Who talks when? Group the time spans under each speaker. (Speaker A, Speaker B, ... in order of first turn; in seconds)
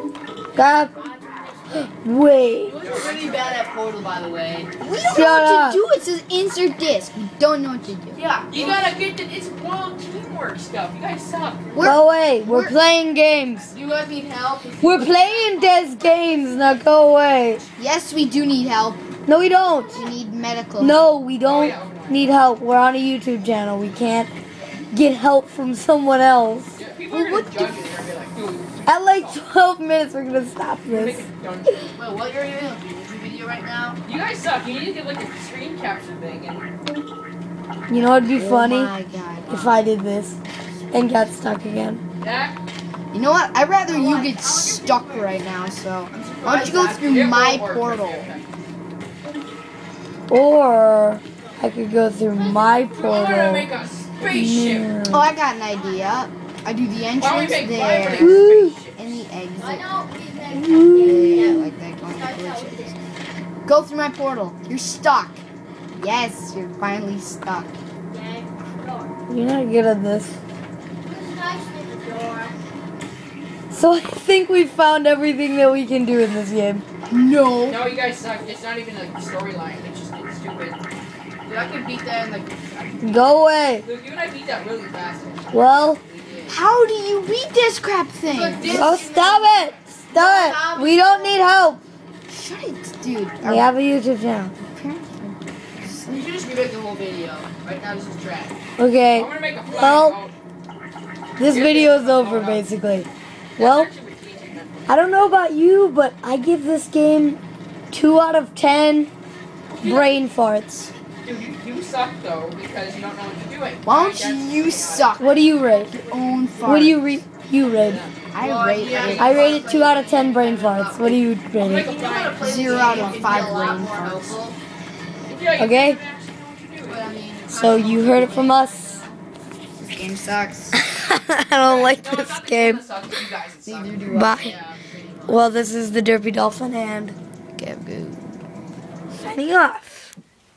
Speaker A: 0.6-0.9, 1.8-2.8, 5.0-5.8, 11.8-13.7, 14.8-17.6, 19.3-20.1, 20.8-24.3, 24.9-26.8, 28.9-31.3, 37.9-38.9, 39.5-40.4, 40.9-42.0, 50.3-53.7, 54.3-55.3, 58.1-58.8, 60.5-61.4, 69.3-70.4, 73.7-76.8, 83.0-83.9, 85.5-86.0, 88.7-91.8, 93.4-94.5, 98.8-100.2, 101.4-103.9, 104.9-107.4, 107.9-109.1, 109.8-110.9, 115.2-116.0, 116.7-118.0, 119.2-121.9, 125.6-126.0, 127.5-129.1, 130.7-132.9, 134.1-134.6, 135.3-137.2, 139.2-139.9
Speaker B: 0.6-2.0, 43.9-45.9, 51.4-51.7, 52.3-53.2, 55.6-56.3, 59.6-63.0, 68.1-69.2, 71.0-72.6
Speaker C: 2.6-4.7, 8.1-8.9, 13.7-16.0, 27.1-27.7, 32.0-34.0, 81.5-83.4, 88.3-91.4, 96.1-98.5, 118.4-121.2, 121.8-124.6, 126.9-129.1, 134.8-135.4
Speaker D: 2.8-3.6, 8.5-11.9, 21.4-22.3, 26.8-29.4, 30.9-32.0, 34.0-36.7, 42.2-42.6, 46.1-48.5, 53.0-55.0, 57.2-59.2, 77.6-80.8, 83.8-86.4, 99.1-100.3, 101.4-102.7, 103.6-105.0, 109.8-110.2, 111.2-115.2, 117.8-118.2, 118.8-119.5, 121.6-123.7, 125.3-127.2, 131.6-134.8
Speaker E: 4.8-8.2, 11.7-12.8, 17.8-19.0, 19.9-21.1, 38.3-39.6, 43.1-48.3, 55.1-58.4, 59.0-59.9, 61.0-63.0, 63.7-67.8, 77.1-77.9, 86.5-89.0, 92.3-93.7, 94.6-96.3, 113.8-117.2, 118.3-119.6, 122.4-124.4, 126.9-127.8, 129.8-130.8, 133.7-134.4, 137.6-138.3